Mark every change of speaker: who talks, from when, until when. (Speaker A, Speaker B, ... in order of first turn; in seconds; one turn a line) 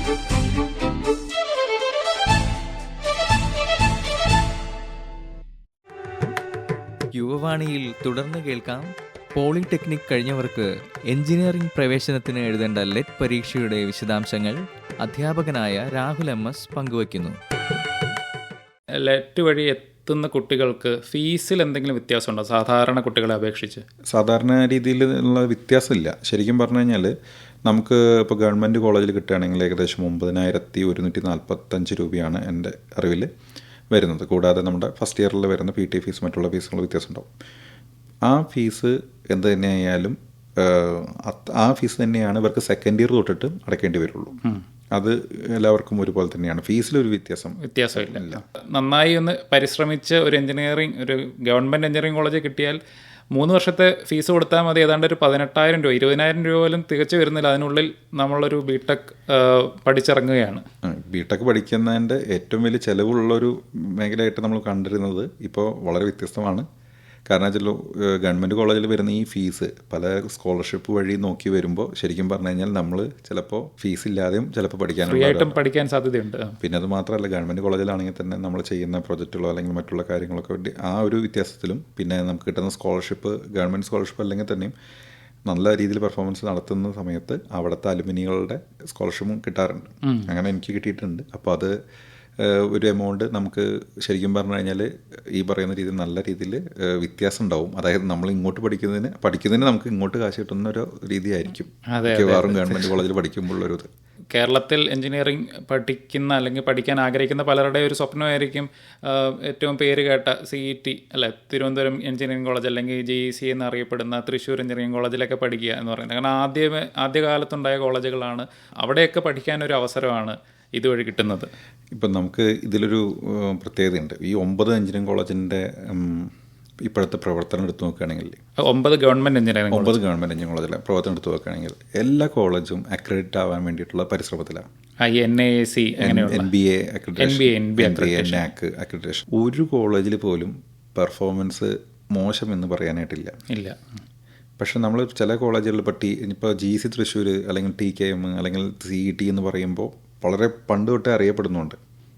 Speaker A: 7.1-17.4
Speaker B: 19.0-23.8
Speaker C: 24.1-27.1
Speaker C: 27.7-33.3
Speaker C: 33.9-37.3
Speaker C: 38.3-44.4
Speaker C: 44.9-48.4
Speaker B: 47.6-52.8
Speaker B: 53.3-60.6
Speaker C: 60.8-66.7
Speaker C: 67.3-75.6
Speaker B: 75.0-76.6
Speaker C: 76.6-84.7
Speaker C: 85.5-91.7
Speaker B: 90.0-90.3
Speaker C: 92.4-103.9
Speaker B: 101.9-103.0
Speaker B: 104.3-121.5
Speaker C: 121.9-126.3
Speaker C: 126.8-128.4
Speaker B: 128.6-130.0
Speaker C: 129.7-134.7
Speaker B: 135.0-136.5
Speaker C: 136.0-143.4
Speaker B: 137.2-138.4
Speaker B: 143.5-143.8
Speaker C: 144.6-151.8